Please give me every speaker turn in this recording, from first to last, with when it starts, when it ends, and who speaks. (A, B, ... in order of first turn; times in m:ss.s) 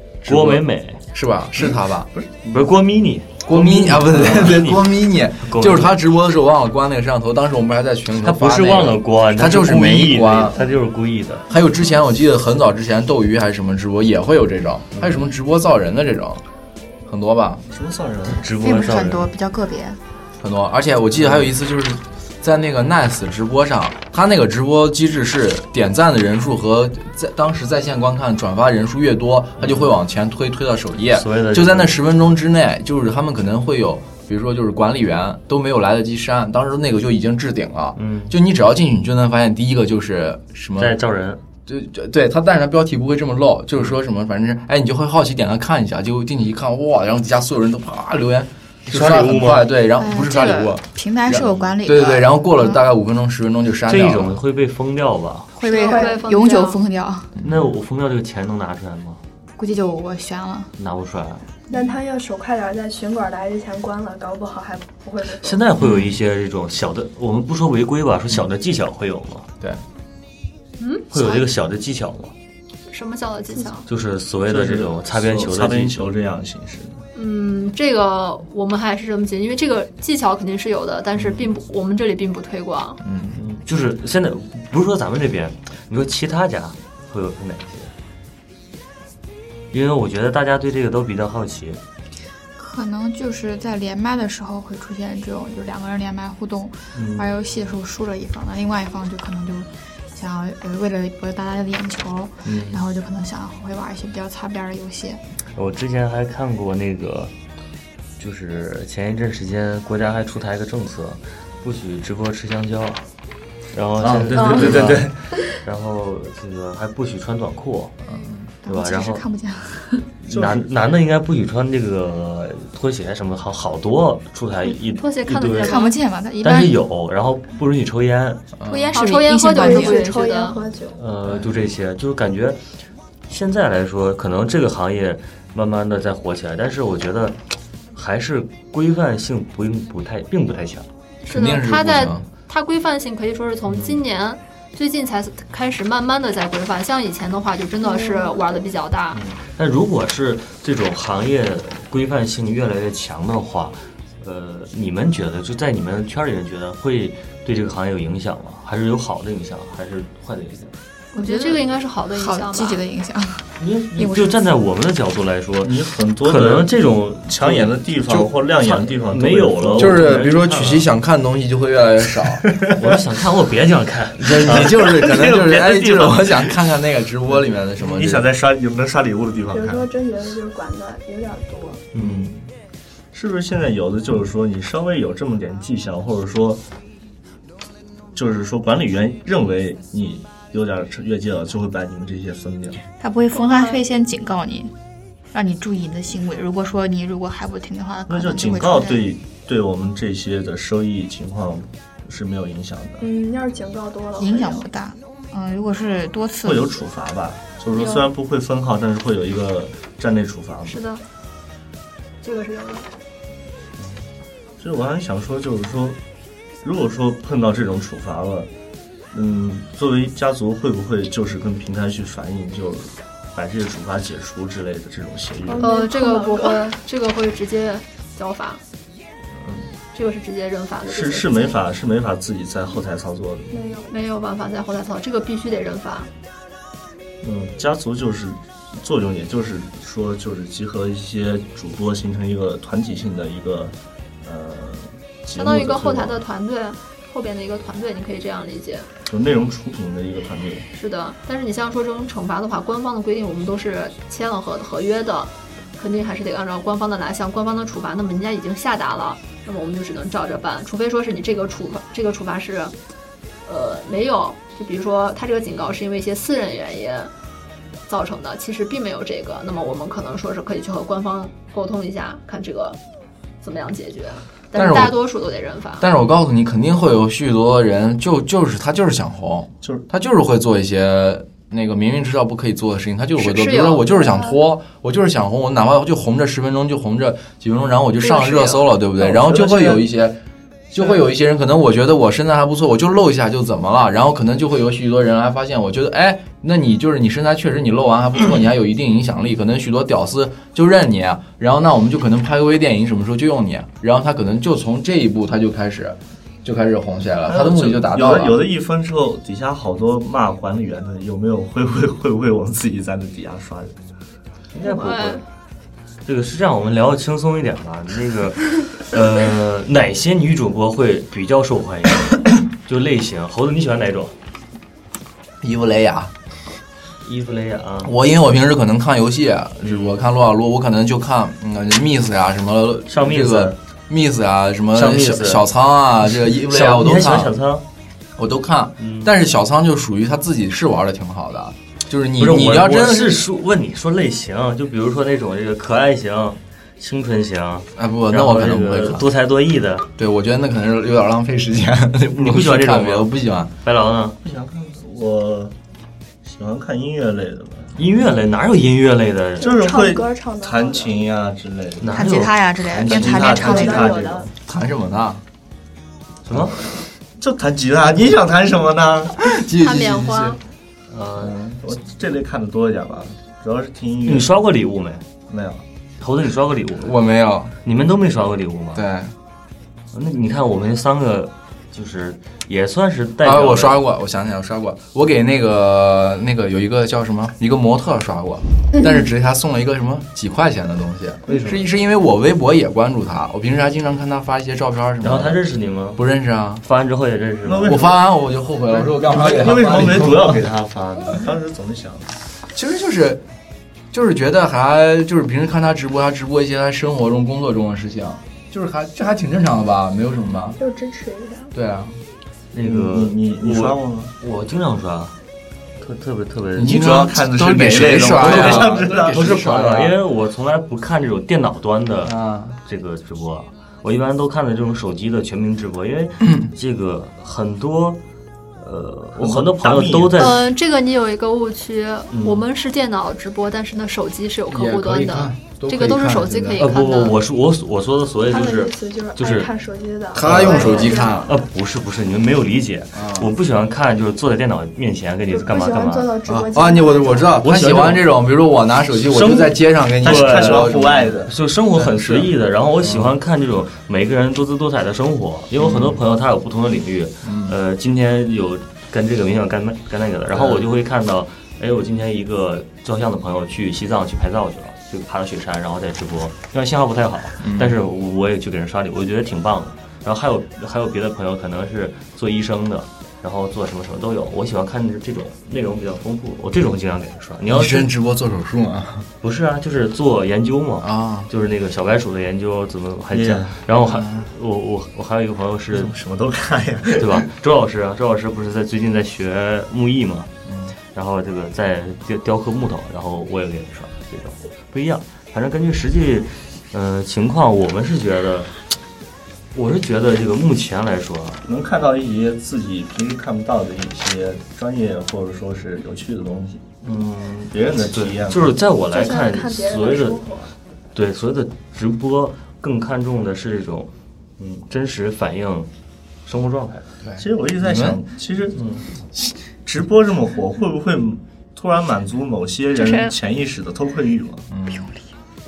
0:00.2-0:02.1 A
0:00.2-0:01.0 B
0:01.6-0:02.6 C
0:02.4-0:05.9 B
0:03.4-0:10.6 A
0:08.2-0:11.4 B
0:11.5-0:16.4 A
0:14.9-0:15.3 B
0:17.0-0:17.6 A
0:17.7-0:18.5 C
0:18.3-0:19.3 B
0:18.6-0:20.0 D
0:20.4-0:41.0 A
0:21.2-0:21.5 B
0:29.6-0:29.9 B
0:31.1-0:32.0 B
0:38.0-0:38.3 B
0:40.8-0:41.4 B
0:41.7-0:50.8 A
0:48.9-0:49.7 B
0:50.0-0:52.8 D
0:51.3-0:51.7 B
0:51.8-0:54.4 A
0:53.9-0:55.5 B
0:55.5-0:57.3 D
0:55.6-0:56.8 E
0:55.7-0:56.2 F
0:57.4-0:57.6 A
0:57.4-0:59.2 B
0:59.6-1:00.7 D
1:00.8-1:01.4 B
1:01.7-1:05.6 F
1:05.4-1:09.5 B
1:05.8-1:06.1 A
1:10.8-1:11.4 E
1:11.1-1:12.3 B
1:12.9-1:13.8 E
1:13.9-1:16.1 B
1:14.4-1:17.0 C
1:17.1-1:23.0 E
1:23.0-1:23.4 A
1:23.4-1:27.9 B
1:29.7-1:31.8 B
1:32.6-1:45.2 D
1:36.9-1:37.3 B
1:42.5-1:42.7 B
1:45.5-1:47.3 B
1:48.2-1:53.0 B
1:53.7-1:57.9 B
1:54.0-1:55.2 C
1:54.4-1:54.6 E
1:54.5-1:55.0 A
1:58.1-1:58.5 A
1:58.6-2:00.1 D
1:58.6-1:59.2 B
2:00.2-2:05.8 B
2:00.3-2:00.8 C
2:05.0-2:06.0 E
2:05.6-2:06.8 D
2:06.4-2:08.5 B
2:08.6-2:08.9 A
2:08.6-2:10.5 D
2:08.9-2:10.6 E
2:09.5-2:11.0 F
2:10.9-2:12.6 B
2:11.2-2:11.6 A
2:13.3-2:17.4 B
2:17.9-2:20.9 B
2:21.2-2:29.2 E
2:21.3-2:22.2 A
2:23.7-2:24.0 B
2:27.8-2:28.7 F
2:29.1-2:40.8 B
2:41.1-2:44.4 D
2:41.1-2:42.8 E
2:43.6-2:47.8 B
2:45.6-2:50.8 C
2:48.6-2:50.8 B
2:49.8-2:52.4 A
2:52.4-2:52.8 C
2:52.7-2:55.0 B
2:54.2-2:58.2 A
2:54.4-2:56.5 C
2:57.8-2:59.9 C
2:59.5-3:01.8 F
3:01.9-3:02.4 B
3:03.1-3:06.6 C
3:08.1-3:12.8 C
3:13.0-3:14.7 D
3:13.3-3:13.8 F
3:15.3-3:19.1 D
3:18.1-3:23.0 C
3:23.0-3:24.7 F
3:24.2-3:26.8 D
3:26.4-3:30.8 C
3:27.7-3:28.1 E
3:30.6-3:31.0 E
3:32.2-3:32.9 E
3:34.6-3:36.0 C
3:36.6-3:38.5 C
3:39.1-3:45.7 C
3:45.5-3:46.7 F
3:45.6-3:48.6 E
3:49.3-3:49.7 C
3:49.9-3:51.5 E
3:50.8-3:53.5 C
3:53.5-3:53.9 F
3:53.9-3:56.1 E
3:57.2-4:06.2 C
4:05.3-4:08.9 E
4:09.1-4:10.6 C
4:10.7-4:22.7 E
4:23.4-4:27.1 E
4:27.9-4:32.8 E
4:33.4-4:35.9 E
4:34.5-4:35.0 A
4:35.8-4:50.2 A
4:43.2-4:44.1 E
4:48.0-4:48.6 E
4:49.0-4:49.8 C
4:50.7-5:08.4 A
5:07.2-5:13.8 C
5:14.5-5:15.2 B
5:14.6-5:15.2 E
5:16.0-5:24.1 B
5:25.4-5:26.1 A
5:27.0-5:27.9 B
5:27.8-5:37.3 A
5:29.6-5:30.0 B
5:32.9-5:33.6 B
5:34.7-5:35.4 B
5:36.1-5:37.6 B
5:38.2-5:43.2 A
5:38.8-5:39.1 B
5:42.2-5:49.9 B
5:47.8-5:49.0 A
5:50.0-5:53.5 A
5:52.1-5:53.1 B
5:53.6-5:54.2 B
5:54.2-5:55.5 C
5:56.2-5:57.8 C
5:57.8-5:59.5 B
5:59.4-6:01.0 F
5:59.4-6:02.0 C
6:01.8-6:03.9 B
6:01.9-6:03.9 D
6:02.8-6:04.3 C
6:03.2-6:04.3 F
6:04.4-6:05.2 A
6:06.3-6:06.6 B
6:07.2-6:09.2 C
6:09.2-6:10.4 A
6:09.6-6:10.4 E
6:10.9-6:11.6 B
6:11.1-6:14.3 C
6:14.0-6:15.0 B
6:15.3-6:15.6 C
6:16.0-6:17.0 B
6:16.8-6:17.5 A
6:17.6-6:18.9 B
6:18.7-6:19.1 A
6:19.9-6:23.8 B
6:23.2-6:35.4 A
6:31.3-6:31.6 B
6:35.0-6:36.1 B
6:36.0-6:36.6 A
6:36.6-6:37.9 B
6:37.4-6:38.0 C
6:37.6-6:40.4 A
6:38.9-6:42.2 C
6:42.5-6:43.2 A
6:43.9-6:50.6 A
6:50.6-6:51.5 F
6:51.5-6:52.0 A
6:52.5-6:55.2 B
6:52.6-6:54.1 C
6:55.8-6:57.0 B
6:56.6-6:59.9 A
6:56.6-6:59.4 C
6:58.0-7:08.0 B
7:02.0-7:02.6 A
7:06.2-7:06.5 A
7:08.6-7:10.5 B
7:09.2-7:10.4 C
7:10.2-7:17.2 E
7:12.1-7:12.4 B
7:14.5-7:16.6 A
7:16.6-7:19.5 B
7:18.3-7:21.3 F
7:20.1-7:21.3 A
7:20.2-7:26.1 B
7:22.9-7:23.3 A
7:25.3-7:27.4 F
7:26.2-7:31.1 A
7:27.4-7:28.1 B
7:29.0-7:57.9 B
7:30.0-7:31.4 C
7:31.8-7:33.2 A
7:35.6-7:36.0 A
7:37.2-7:37.6 A
7:47.4-7:47.8 A
7:57.5-7:59.1 A
7:59.2-8:05.9 B
8:00.8-8:01.3 A
8:03.1-8:03.6 C
8:03.8-8:04.3 A
8:05.7-8:07.2 C
8:07.0-8:10.3 B
8:10.4-8:10.7 A
8:10.9-8:18.6 B
8:19.5-8:21.4 B
8:21.4-8:26.6 C
8:26.8-8:30.2 B
8:27.4-8:28.6 C
8:28.9-8:30.5 F
8:30.9-8:35.7 B
8:36.2-8:36.9 B
8:37.0-8:38.0 A
8:37.2-8:44.5 C
8:38.6-8:38.8 B
8:44.5-8:44.9 A